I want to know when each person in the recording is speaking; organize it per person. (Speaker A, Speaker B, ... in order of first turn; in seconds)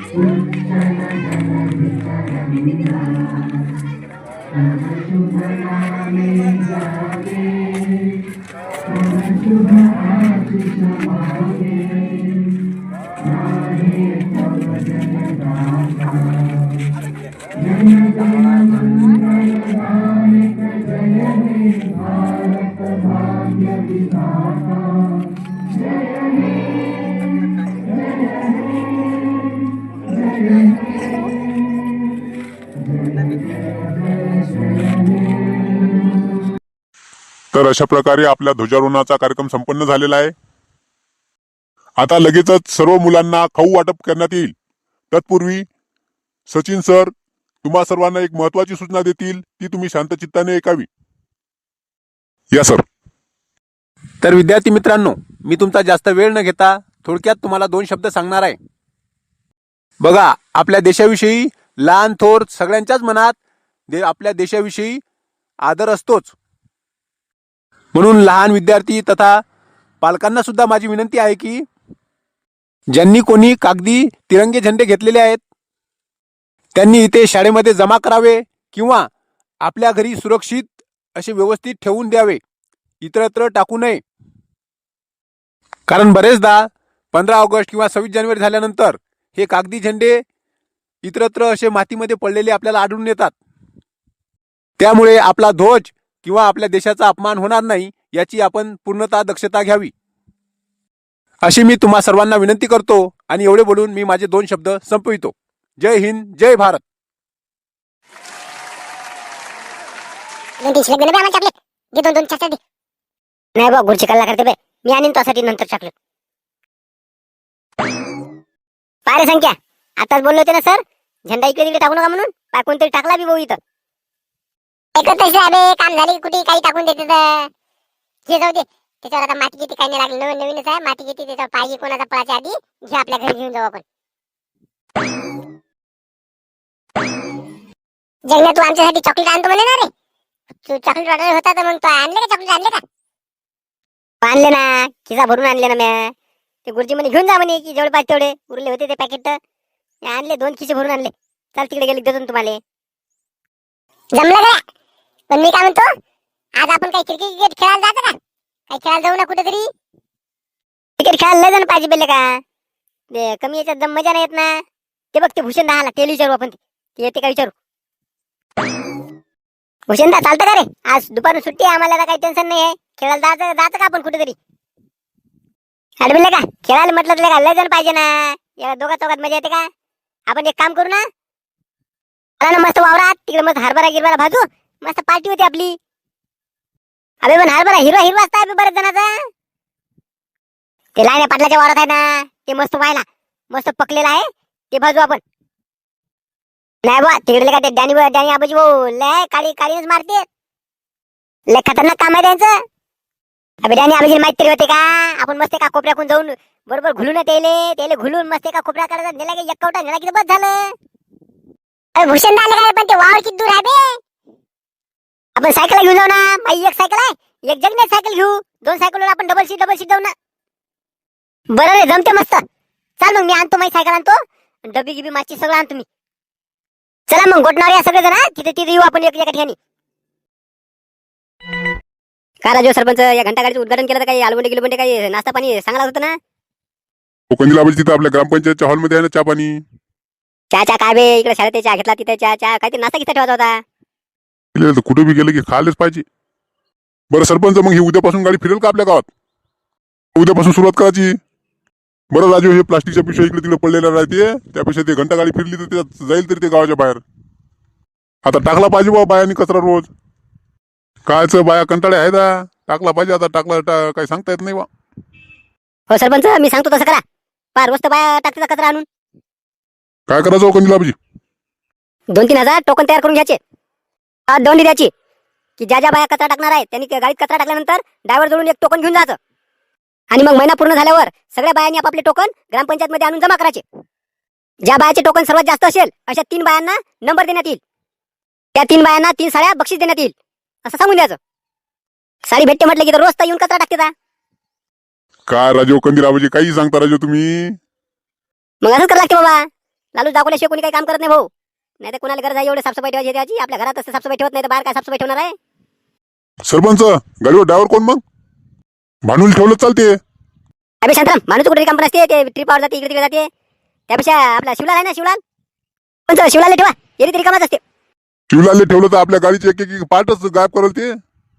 Speaker A: 37.5-40.3, 42.0-44.5, 45.1-45.7, 46.5-47.1, 47.6-50.9, 52.5-52.8, 237.3-239.6, 244.6-246.1, 247.1-249.1, 250.2-251.2, 252.1-257.0, 258.2-259.9, 261.1-264.7, 270.1-271.0, 295.3-297.5, 306.5-308.0, 309.1-310.0, 318.3-320.9
Speaker B: 54.2-58.6, 60.0-63.4, 63.9-65.0, 65.6-66.3, 67.9-69.4, 70.0-71.7, 72.9-75.4, 76.8-79.1, 79.6-82.4, 83.0-84.0, 85.9-90.2, 91.0-93.3, 94.8-99.9, 101.4-106.8
Speaker C: 110.6-112.6, 113.6-115.9, 119.1-123.6, 125.0-127.4, 128.3-133.8, 138.3-139.9, 140.7-142.8, 144.2-146.1, 146.7-149.4, 150.1-152.6, 154.2-154.6, 155.3-155.9, 156.6-158.2, 158.7-159.7, 161.0-162.4, 163.1-164.5, 165.1-167.5, 169.9-174.4, 176.0-179.7, 180.3-181.0, 182.4-185.8, 187.2-189.1, 191.0-195.2, 196.8-200.2, 201.5-202.5, 203.6-210.6, 212.0-214.0, 215.4-220.1, 221.5-222.4, 223.0-225.9, 227.1-229.6, 232.4-236.2, 240.5-243.6, 265.9-267.0, 267.6-268.9, 272.1-273.4, 274.3-274.9, 275.6-279.2, 280.1-283.6, 284.6-287.6, 288.6-290.1, 290.6-291.2, 292.3-293.9, 298.6-301.3, 301.8-305.3, 310.8-313.3, 313.9-315.2, 316.1-317.6